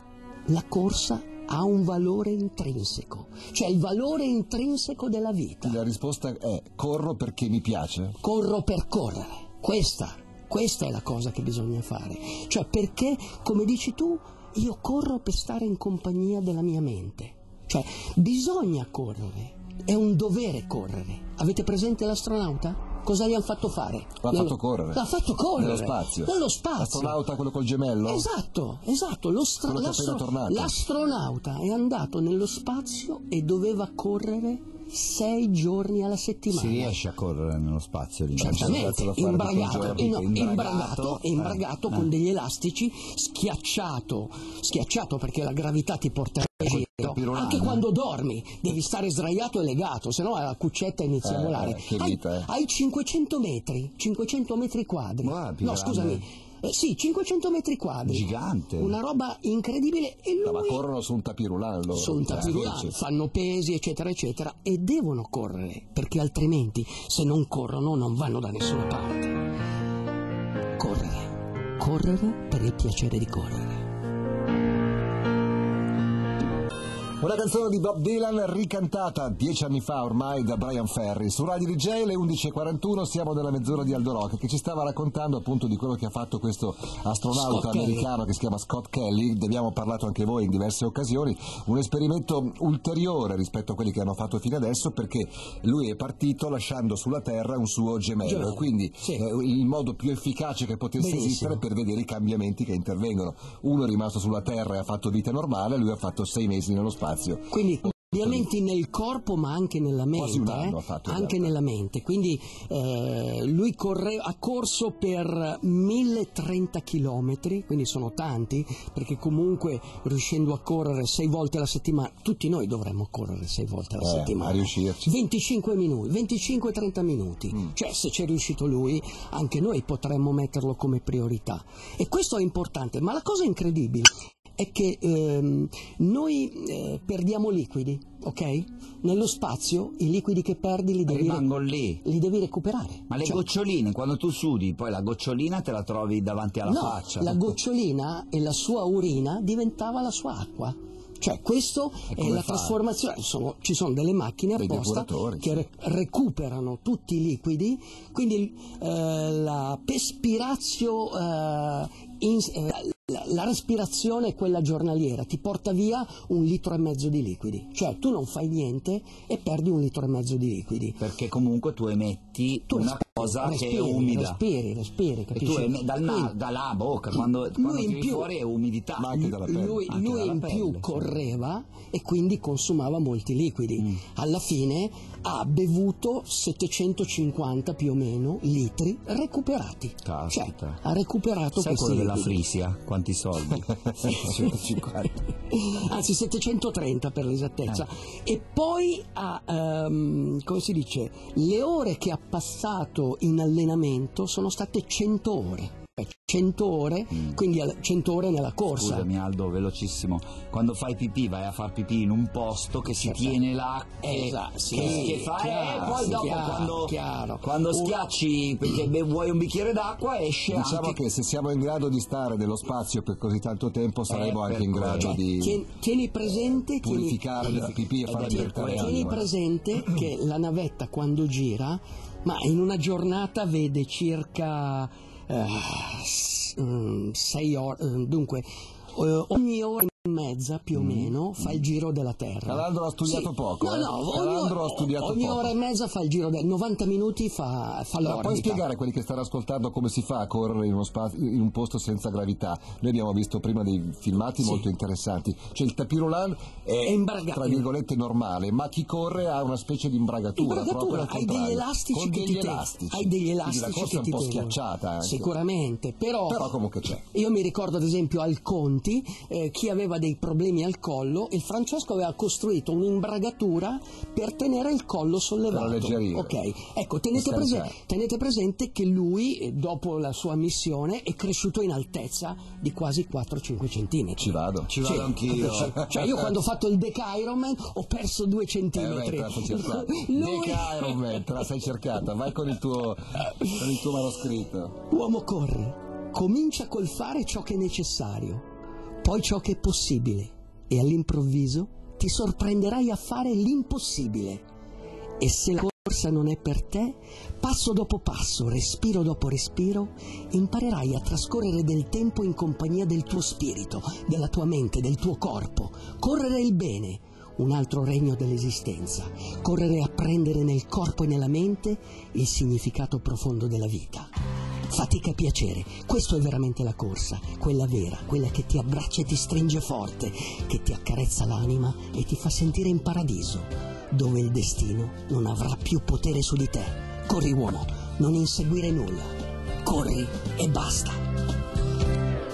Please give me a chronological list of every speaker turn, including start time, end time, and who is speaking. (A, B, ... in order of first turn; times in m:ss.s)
0:00.5-0:05.8 A
0:05.6-0:08.2 B
0:08.2-0:27.2 A
0:24.2-0:25.0 B
0:25.6-0:28.3 B
0:28.0-0:37.0 A
0:29.6-0:30.8 B
0:36.5-0:42.1 C
0:38.4-1:00.8 A
0:38.5-0:40.1 B
0:46.7-0:47.8 B
0:51.2-0:52.5 B
0:55.2-0:56.2 C
0:58.0-0:59.0 C
1:00.4-1:02.9 B
1:01.9-1:09.4 A
1:02.3-1:02.6 C
1:10.8-1:13.9 A
1:17.2-1:47.5 B
1:27.3-1:28.1 A
1:38.2-1:39.2 A
1:41.0-1:41.6 A
1:47.5-2:21.5 A
1:50.1-1:51.5 B
2:04.0-2:05.1 B
2:21.1-2:22.0 C
2:22.0-2:23.4 A
2:23.1-2:27.5 C
2:26.6-2:51.0 A
2:32.1-2:32.8 C
2:34.6-2:35.6 B
2:51.0-2:54.4 C
2:52.7-2:56.3 A
2:55.4-2:59.3 C
2:57.5-2:58.3 A
2:59.0-2:59.9 B
2:59.1-3:12.4 A
2:59.9-3:01.2 C
3:10.0-3:10.8 C
3:11.6-3:14.3 C
3:13.9-3:15.1 B
3:14.0-3:14.6 A
3:15.5-3:29.1 A
3:28.8-3:41.0 C
3:32.9-3:33.4 A
3:34.0-3:38.1 A
3:34.8-3:35.1 B
3:40.5-3:45.6 B
3:44.1-3:45.2 C
3:45.0-4:08.6 A
3:46.8-3:49.2 B
3:47.5-3:49.2 C
4:00.7-4:01.1 B
4:02.5-4:05.5 B
4:08.0-4:25.3 B
4:14.4-4:14.7 A
4:16.8-4:17.7 A
4:20.4-4:51.3 A
4:26.3-4:27.0 B
4:35.5-4:36.4 B
4:37.1-4:37.8 B
4:44.2-4:44.8 B
4:44.7-4:45.8 C
4:45.6-4:46.3 B
4:48.7-4:54.8 B
4:54.9-4:58.4 A
4:59.0-5:04.4 A
5:05.2-5:24.1 A
5:24.7-5:41.0 A